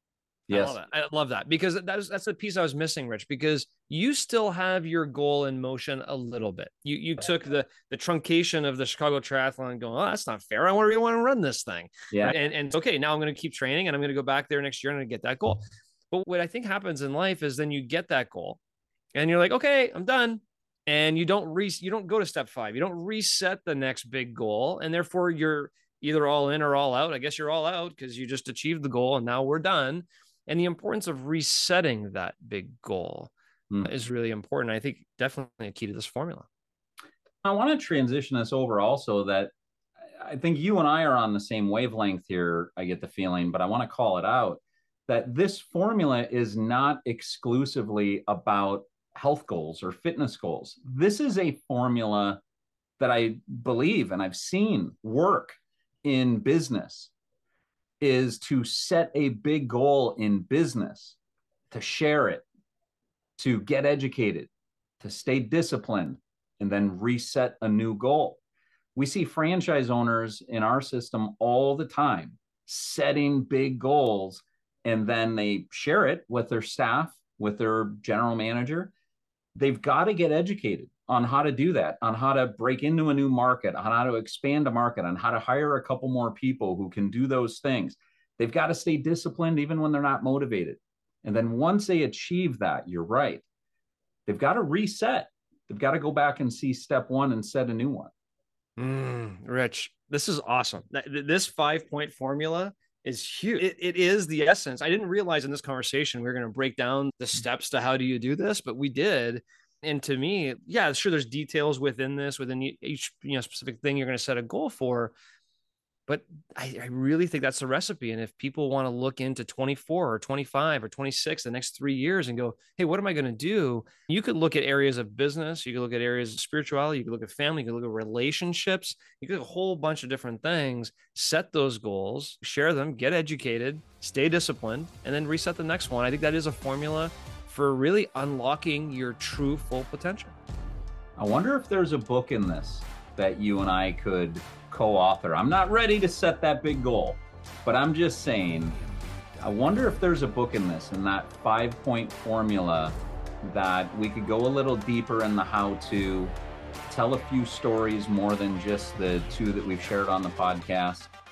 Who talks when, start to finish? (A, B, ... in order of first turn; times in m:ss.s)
0:00.5-0:00.8 A
0:00.5-0:18.6 B
0:12.1-0:12.4 A
0:19.1-0:33.3 B
0:33.8-0:36.5 B
0:37.4-0:39.5 A
0:40.1-0:52.4 A
0:53.0-0:57.1 A
0:58.0-1:01.2 A
1:01.7-1:02.4 A
1:03.4-1:04.5 A
1:05.0-1:08.4 A
1:08.9-1:18.9 A
1:19.5-1:33.4 A
1:34.3-1:38.1 A
1:38.8-1:55.1 B
1:56.1-2:20.3 B
2:21.2-2:28.8 A
2:29.4-2:36.3 A
2:36.8-2:41.1 A